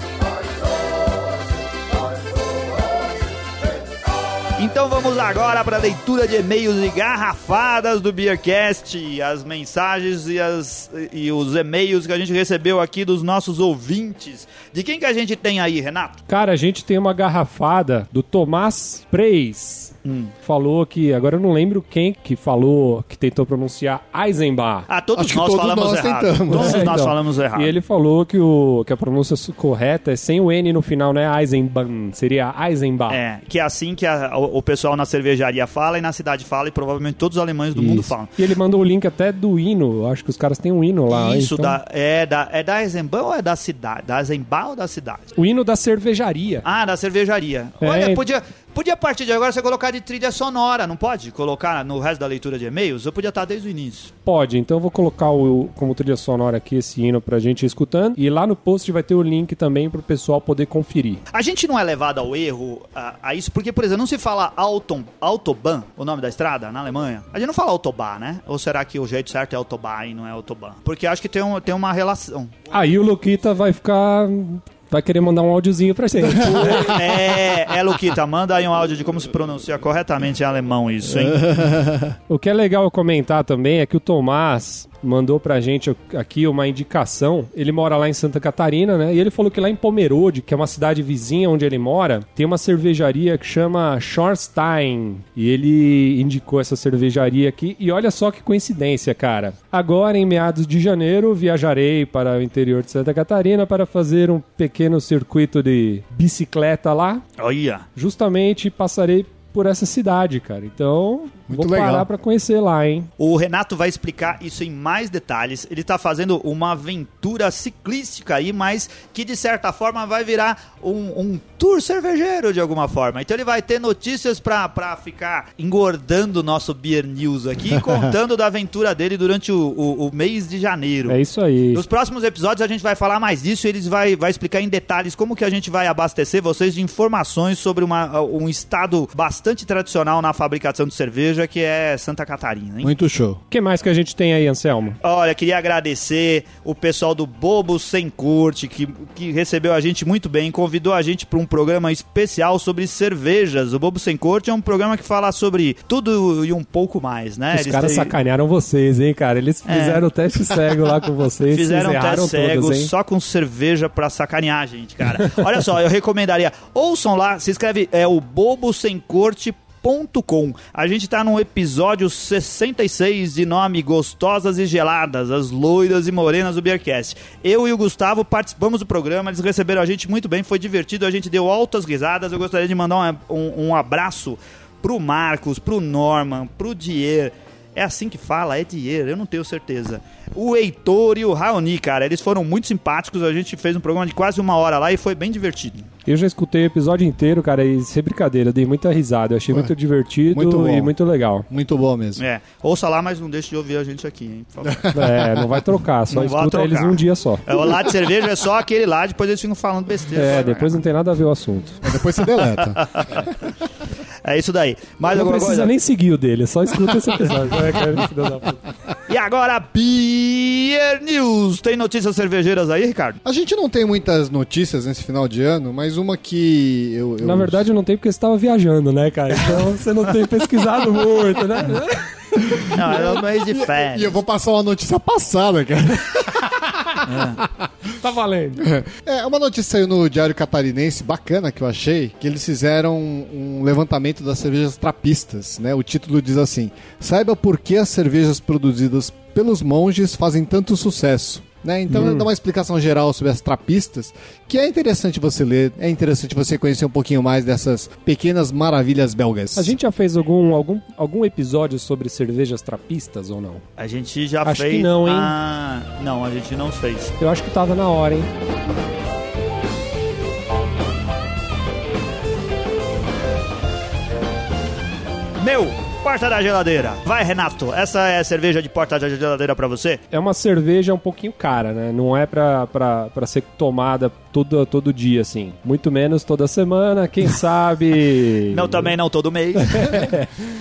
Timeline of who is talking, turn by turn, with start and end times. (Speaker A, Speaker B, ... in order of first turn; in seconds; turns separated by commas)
Speaker A: 4.6-16.2, Speaker B: 16.3-24.9, Speaker A: 20.0-20.3, Speaker A: 24.9-27.7, Speaker C: 25.1-26.9, Speaker B: 26.5-33.2, Speaker A: 33.1-38.3, Speaker B: 37.7-41.8, Speaker A: 41.1-45.3, Speaker B: 45.4-46.6, Speaker A: 46.6-54.1, Speaker B: 47.8-48.2, Speaker B: 54.2-61.2, Speaker A: 61.3-72.5, Speaker B: 72.7-77.0, Speaker A: 76.4-81.5, Speaker C: 81.4-82.1, Speaker B: 82.3-107.2, Speaker A: 107.4-107.9, Speaker B: 108.0-113.1, Speaker C: 111.5-112.1, Speaker A: 113.2-131.2, Speaker B: 131.1-131.8, Speaker A: 131.7-142.9, Speaker C: 142.8-143.4, Speaker B: 143.5-145.0, Speaker A: 145.0-158.1, Speaker B: 157.5-162.9, Speaker A: 159.7-160.0, Speaker A: 161.5-195.9, Speaker B: 196.1-201.5, Speaker C: 200.3-200.9, Speaker C: 201.5-202.2, Speaker A: 202.2-204.9, Speaker C: 204.7-205.6, Speaker B: 204.9-207.5, Speaker A: 206.1-210.7, Speaker B: 210.1-211.8, Speaker C: 211.8-213.3, Speaker A: 212.5-213.3, Speaker A: 214.2-215.7, Speaker B: 215.1-218.6, Speaker A: 219.1-223.2, Speaker C: 223.2-227.6, Speaker B: 227.2-232.1, Speaker C: 232.3-237.9, Speaker A: 232.7-234.2, Speaker A: 237.0-237.4, Speaker B: 238.0-238.7, Speaker C: 238.6-259.7, Speaker A: 251.9-252.2, Speaker B: 259.6-263.6, Speaker A: 263.8-267.1, Speaker B: 264.4-265.3, Speaker B: 267.2-268.3, Speaker A: 275.4-280.0, Speaker B: 280.1-288.9, Speaker A: 288.5-290.0, Speaker B: 289.6-290.3